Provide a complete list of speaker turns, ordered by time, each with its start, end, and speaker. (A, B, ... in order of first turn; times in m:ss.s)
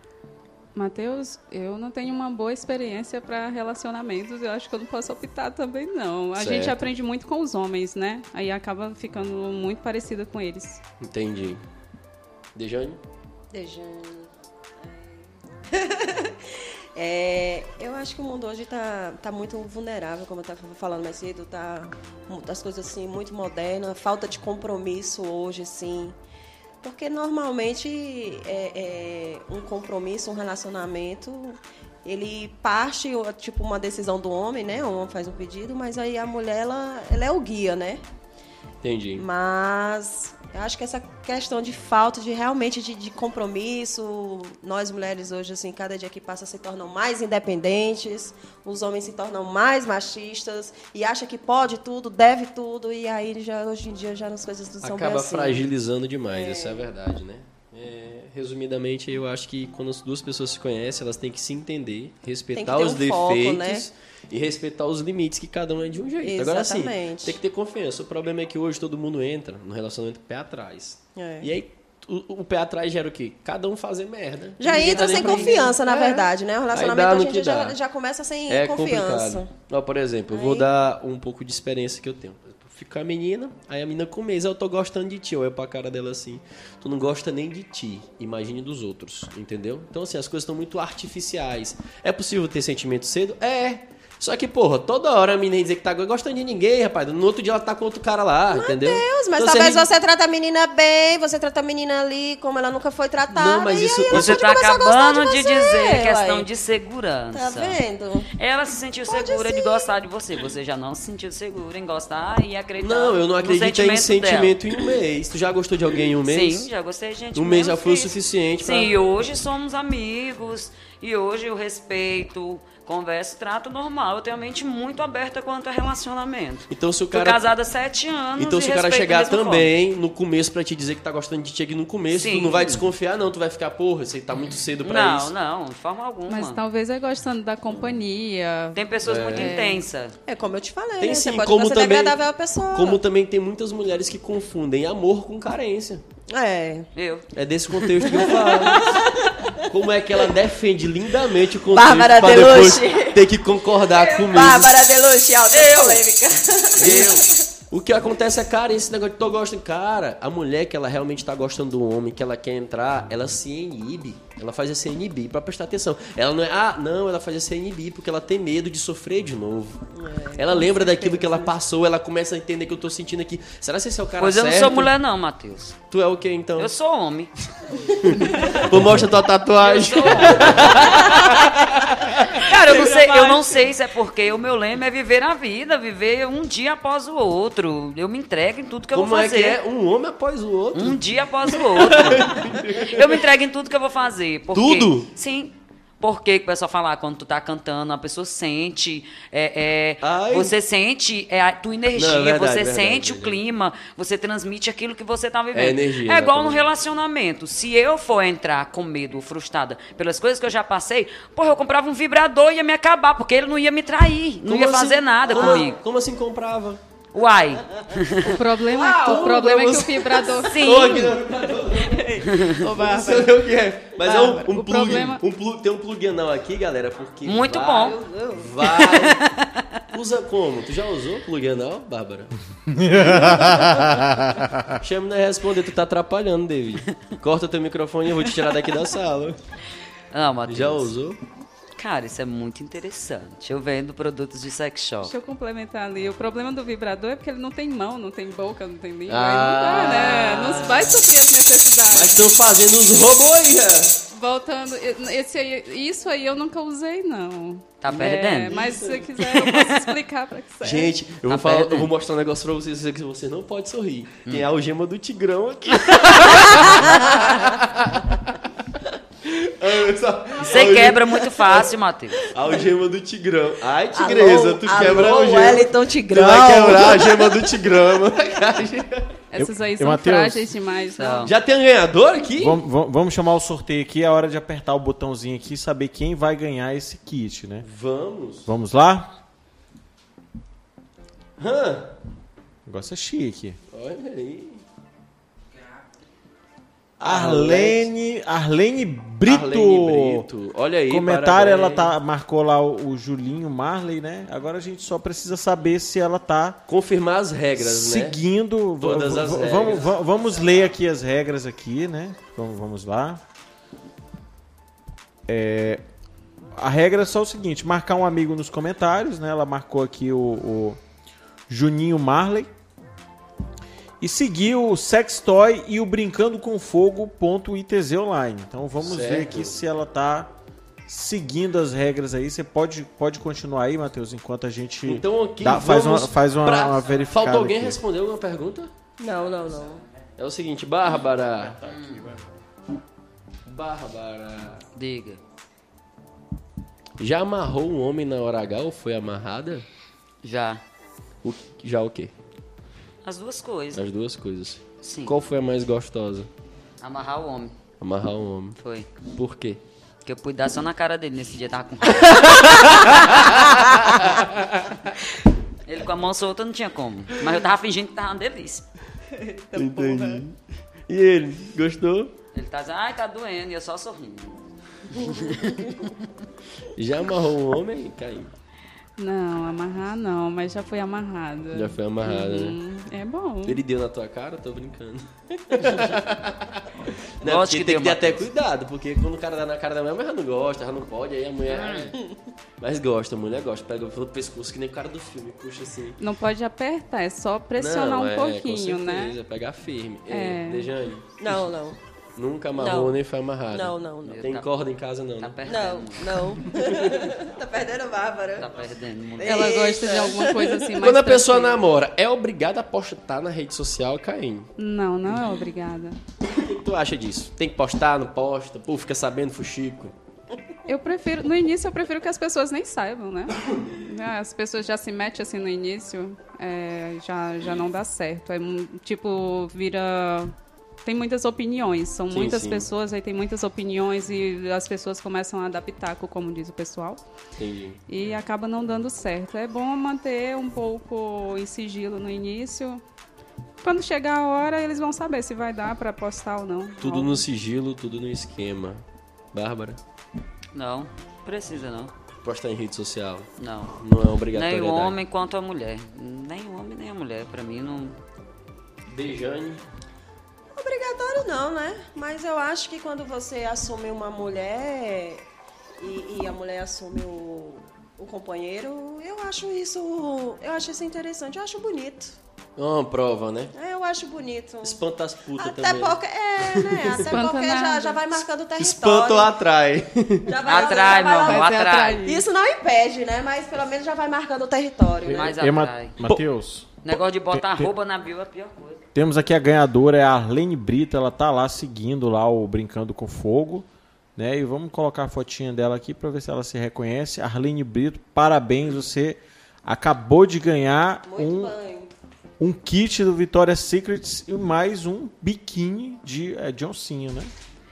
0:00.7-0:10.8 A
0:06.4-0:06.8 B
0:11.0-0:11.6 B
0:12.5-0:13.0 B
0:13.5-0:14.3 C
0:14.8-0:26.1 C
0:26.8-0:38.0 C
0:38.8-0:39.3 B
0:39.2-0:55.7 C
0:54.8-1:17.8 B
0:56.3-0:56.9 C
1:02.5-1:03.9 C
1:06.2-1:07.4 C
1:11.2-1:11.5 C
1:14.6-1:19.5 C
1:14.7-1:15.8 A
1:18.5-1:39.9 B
1:20.3-1:20.7 C
1:38.5-1:46.5 C
1:43.3-1:44.4 B
1:44.1-1:47.8 D
1:47.3-1:48.3 C
1:48.3-1:54.6 D
1:49.1-1:49.9 C
1:52.8-1:56.7 B
1:56.2-2:09.7 D
1:57.3-1:58.9 B
2:06.7-2:07.4 B
2:08.4-2:15.3 B
2:12.1-2:12.9 D
2:14.8-2:16.6 D
2:16.3-2:19.8 A
2:18.7-2:20.2 D
2:19.0-2:19.5 B
2:20.2-2:23.0 C
2:21.0-2:26.0 B
2:26.3-2:26.9 C
2:26.9-2:27.2 D
2:27.3-2:29.1 B
2:27.8-2:29.6 C
2:29.6-2:34.8 B
2:31.7-2:33.2 C
2:33.9-2:37.3 C
2:35.5-2:36.0 D
2:36.8-2:37.3 D
2:36.8-2:49.8 B
2:49.9-2:51.5 C
2:50.4-2:54.9 B
2:54.2-2:55.8 D
2:55.9-2:56.7 B
2:56.6-2:57.3 D
2:57.8-3:02.3 B
2:59.6-3:09.6 D
3:02.6-3:03.6 A
3:08.9-3:13.2 B
3:10.7-3:35.8 D
3:14.5-3:15.1 B
3:20.0-3:20.5 B
3:21.9-3:23.4 B
3:25.5-3:26.6 B
3:34.4-3:36.8 B
3:37.1-3:38.4 D
3:38.2-3:41.1 A
3:38.6-3:49.2 B
3:40.5-3:41.2 D
3:41.7-3:43.4 A
3:42.2-3:42.6 D
3:44.0-3:45.2 A
3:47.2-3:48.0 D
3:47.8-3:48.5 C
3:48.6-3:49.8 D
3:49.9-3:52.3 B
3:52.7-3:54.8 E
3:52.9-3:53.9 B
3:54.8-3:59.4 B
4:00.1-4:00.9 D
4:00.5-4:01.2 B
4:01.8-4:05.1 D
4:05.0-4:12.2 A
4:09.1-4:11.0 B
4:11.9-4:14.0 B
4:14.1-4:20.9 A
4:17.8-4:18.6 D
4:18.5-4:19.1 B
4:19.2-4:19.9 D
4:20.6-4:28.4 B
4:21.3-4:21.9 D
4:26.6-4:27.2 C
4:29.2-4:31.6 B
4:30.4-4:32.2 D
4:32.3-4:39.2 B
4:33.9-4:37.4 C
4:39.3-4:41.3 A
4:39.4-4:40.5 E
4:41.0-4:41.3 D
4:41.2-4:42.6 B
4:42.4-4:47.6 E
4:47.6-4:48.5 B
4:48.4-4:49.1 E
4:51.4-4:51.9 B
4:52.6-4:53.6 E
4:53.7-4:54.6 B
4:57.0-4:57.9 B
4:57.0-5:00.3 E
4:59.2-5:01.9 B
5:00.9-5:06.6 E
5:06.7-5:08.2 B
5:07.6-5:13.2 E
5:08.8-5:09.9 B
5:15.3-5:15.8 E
5:16.6-5:20.8 E
5:21.5-5:22.5 E
5:24.0-5:30.3 E
5:28.8-5:29.5 B
5:30.9-5:37.8 E
5:34.8-5:38.7 B
5:39.0-5:39.8 C
5:40.2-5:41.6 B
5:41.4-5:42.2 E
5:41.7-5:42.0 D
5:43.4-5:44.6 B
5:44.7-5:45.2 D
5:47.0-5:49.6 B
5:50.2-5:50.6 D
5:51.2-5:52.1 B
5:53.0-5:53.8 D
5:53.7-5:56.3 B
5:54.8-5:55.1 D
5:56.8-5:57.5 D
5:57.8-5:58.6 B
5:58.6-5:58.9 D
5:59.1-5:59.6 B
6:00.0-6:04.0 D
6:02.0-6:04.9 B
6:05.6-6:08.6 D
6:09.1-6:10.2 A
6:09.5-6:12.1 B
6:12.3-6:15.9 D
6:16.7-6:18.3 B
6:19.0-6:23.6 A
6:21.5-6:22.6 B
6:23.4-6:32.0 B
6:27.2-6:28.2 D
6:31.5-6:31.9 D
6:32.6-6:36.0 B
6:36.0-6:39.2 A
6:37.6-6:41.4 B
6:40.1-6:40.7 A
6:41.2-6:41.8 C
6:42.2-6:45.4 B
6:42.6-6:43.0 C
6:43.5-6:44.2 C
6:44.0-6:44.6 D
6:45.2-6:46.4 D
6:45.4-6:48.5 C
6:46.6-6:47.0 B
6:48.4-6:49.6 D
6:49.2-6:50.7 C
6:49.2-6:51.6 A
6:50.8-6:54.5 B
6:54.6-6:56.0 A
6:56.2-6:59.9 B
7:00.7-7:10.3 A
7:03.5-7:03.8 B
7:10.8-7:17.0 A
7:12.1-7:12.7 B
7:17.4-7:17.8 B
7:17.9-7:22.8 A
7:23.6-7:27.2 A
7:26.8-7:29.8 B
7:30.5-7:31.9 D
7:32.2-7:34.9 B
7:33.4-7:33.8 D
7:34.3-7:38.0 D
7:38.9-7:39.6 B
7:40.5-7:45.2 C
7:45.8-7:52.2 C
7:52.6-7:53.5 B
7:53.5-7:54.8 C
7:54.6-7:57.2 B
7:55.4-7:59.3 C
7:57.0-7:58.0 A
7:58.6-8:00.4 B
8:00.2-8:05.3 C
8:00.4-8:02.1 D
8:00.6-8:02.2 A
8:05.0-8:06.0 D
8:05.0-8:07.7 E
8:06.8-8:08.8 D
8:08.9-8:21.5 E
8:21.0-8:21.9 C
8:22.4-8:27.3 E